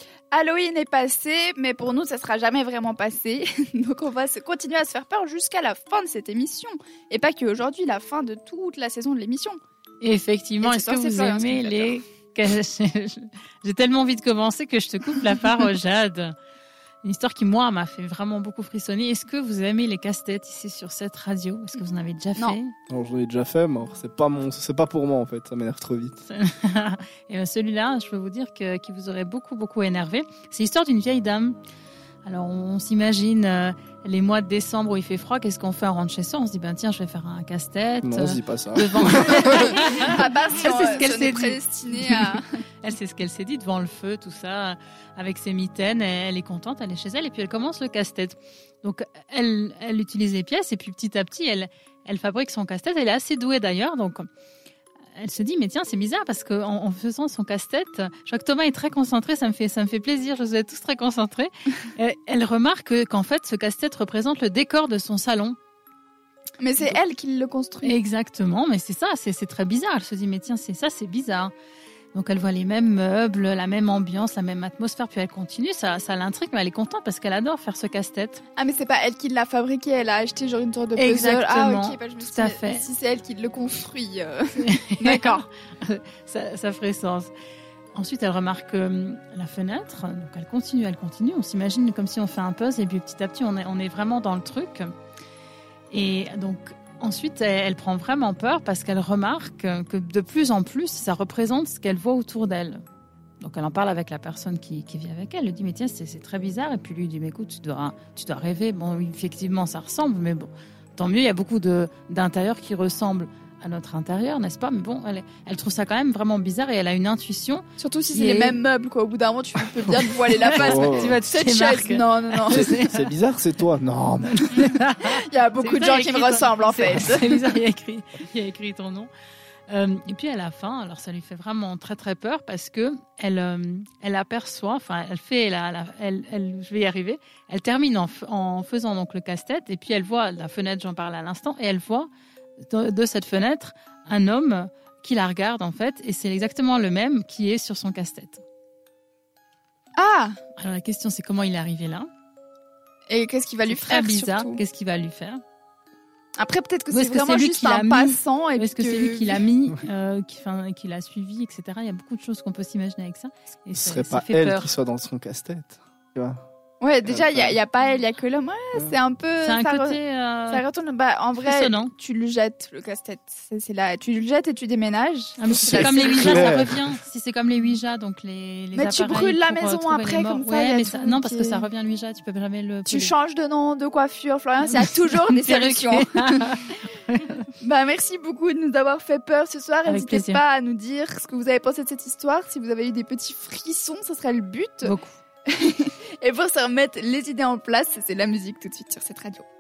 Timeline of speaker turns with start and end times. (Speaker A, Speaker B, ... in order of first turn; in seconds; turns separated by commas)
Speaker A: 0.3-9.6, Speaker B: 10.0-16.3, Speaker A: 10.6-12.0, Speaker B: 17.0-22.7, Speaker C: 22.9-26.2, Speaker B: 26.3-31.6, Speaker B: 32.2-54.3, Speaker C: 38.0-39.7, Speaker A: 39.5-42.5, Speaker B: 55.2-65.6, Speaker A: 66.6-68.0, Speaker B: 67.8-71.5, Speaker B: 72.1-78.4, Speaker A: 78.6-85.4, Speaker B: 81.0-82.9, Speaker B: 84.6-87.3, Speaker B: 88.0-94.9, Speaker B: 95.9-102.8, Speaker B: 103.4-118.6, Speaker A: 117.8-122.7, Speaker B: 119.8-123.1, Speaker C: 120.5-121.2, Speaker C: 122.5-124.5, Speaker B: 124.3-129.1, Speaker A: 124.6-127.5, Speaker B: 129.7-142.1, Speaker B: 142.6-148.4, Speaker A: 150.0-150.3, Speaker B: 150.6-152.1, Speaker A: 153.1-154.6, Speaker B: 153.7-155.4, Speaker A: 156.4-159.5, Speaker B: 156.9-164.7, Speaker C: 163.7-166.4, Speaker A: 166.8-176.5, Speaker C: 167.1-167.6, Speaker B: 169.4-170.7, Speaker B: 171.4-171.9, Speaker B: 175.4-183.1, Speaker C: 175.5-176.8, Speaker A: 178.7-181.7, Speaker A: 182.9-186.6, Speaker B: 184.7-187.5, Speaker A: 187.6-194.9, Speaker B: 189.9-190.4, Speaker B: 194.8-195.2, Speaker A: 195.5-199.4